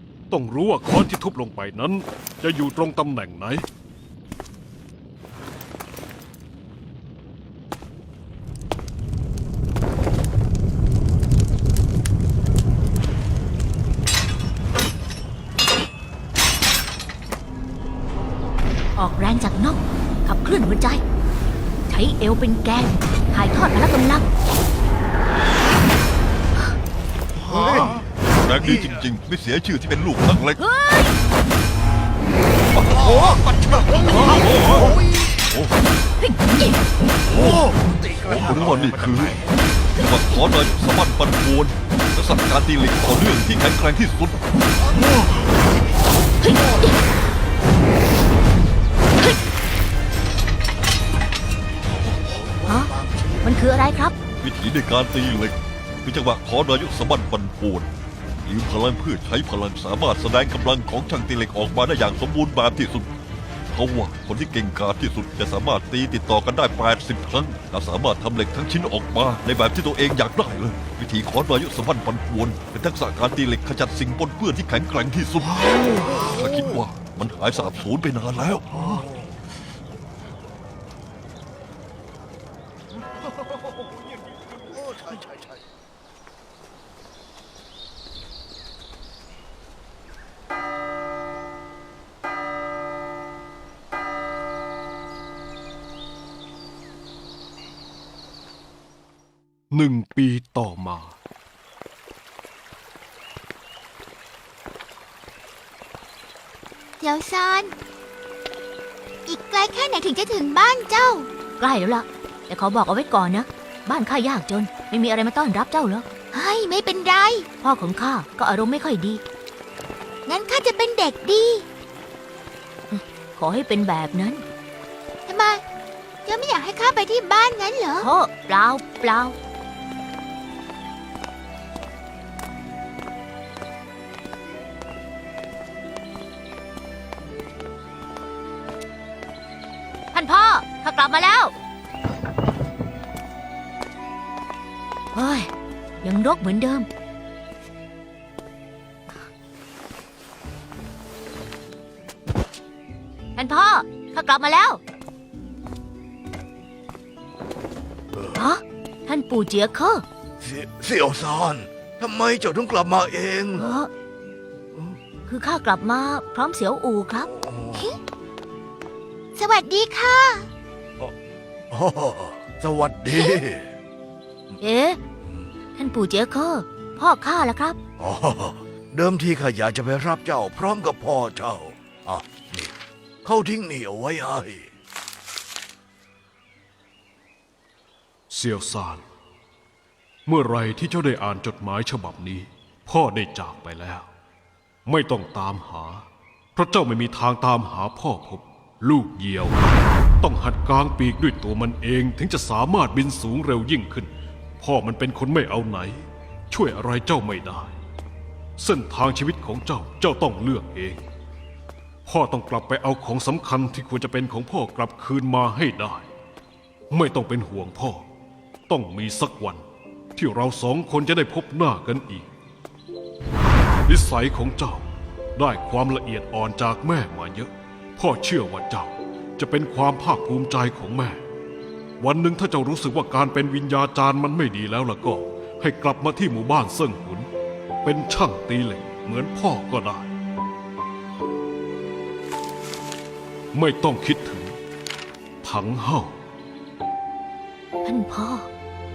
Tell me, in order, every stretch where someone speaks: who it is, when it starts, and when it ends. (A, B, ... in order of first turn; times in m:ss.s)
0:00.3-0:03.6 A
0:19.0-0:21.0 B
0:21.9-0:24.2 B
0:27.5-0:28.0 C
0:27.5-0:30.6 D
0:28.6-0:29.0 C
0:30.6-0:31.1 B
0:32.9-0:33.3 D
0:33.0-0:35.0 C
0:34.1-0:35.0 D
0:36.2-0:36.8 B
0:37.3-0:37.6 D
0:37.3-0:39.4 C
0:38.2-0:39.4 D
0:40.0-0:44.4 D
0:46.4-0:46.9 B
0:52.6-0:53.2 C
0:52.6-0:54.1 B
0:54.4-0:57.9 D
0:58.4-1:03.1 D
1:03.7-1:18.9 D
1:15.9-1:16.3 C
1:18.9-1:19.1 C
1:24.7-1:25.6 C
1:39.7-1:41.2 A
1:47.0-1:47.7 E
1:49.3-1:51.3 E
1:51.6-1:56.1 B
1:56.3-1:57.4 E
1:57.6-1:59.2 B
2:00.3-2:01.6 E
2:02.9-2:04.4 B
2:05.3-2:05.6 E
2:06.2-2:08.1 E
2:08.0-2:09.3 B
2:20.1-2:21.5 B
2:25.1-2:25.5 B
2:26.0-2:26.9 B
2:33.4-2:34.8 B
2:38.3-2:40.0 B
2:40.4-2:43.8 C
2:43.6-2:43.9 B
2:45.3-2:47.3 B
2:47.3-2:47.9 C
2:49.4-2:50.5 E
2:51.7-2:53.7 C
2:54.6-2:55.0 B
2:55.8-2:57.8 B
2:58.0-3:02.7 C
3:03.2-3:04.7 C
3:08.3-3:09.0 A
3:10.2-3:14.1 A
3:14.8-3:27.7 A
3:28.6-3:31.0 A
3:32.0-3:36.1 A
3:36.9-3:38.0 A
3:38.7-3:39.6 A
3:40.2-3:42.3 A
3:43.8-3:51.2 A
3:52.0-3:57.3 A
3:57.8-4:00.1 A
4:03.5-4:04.6 A
4:05.4-4:06.2 A
4:07.8-4:08.5 B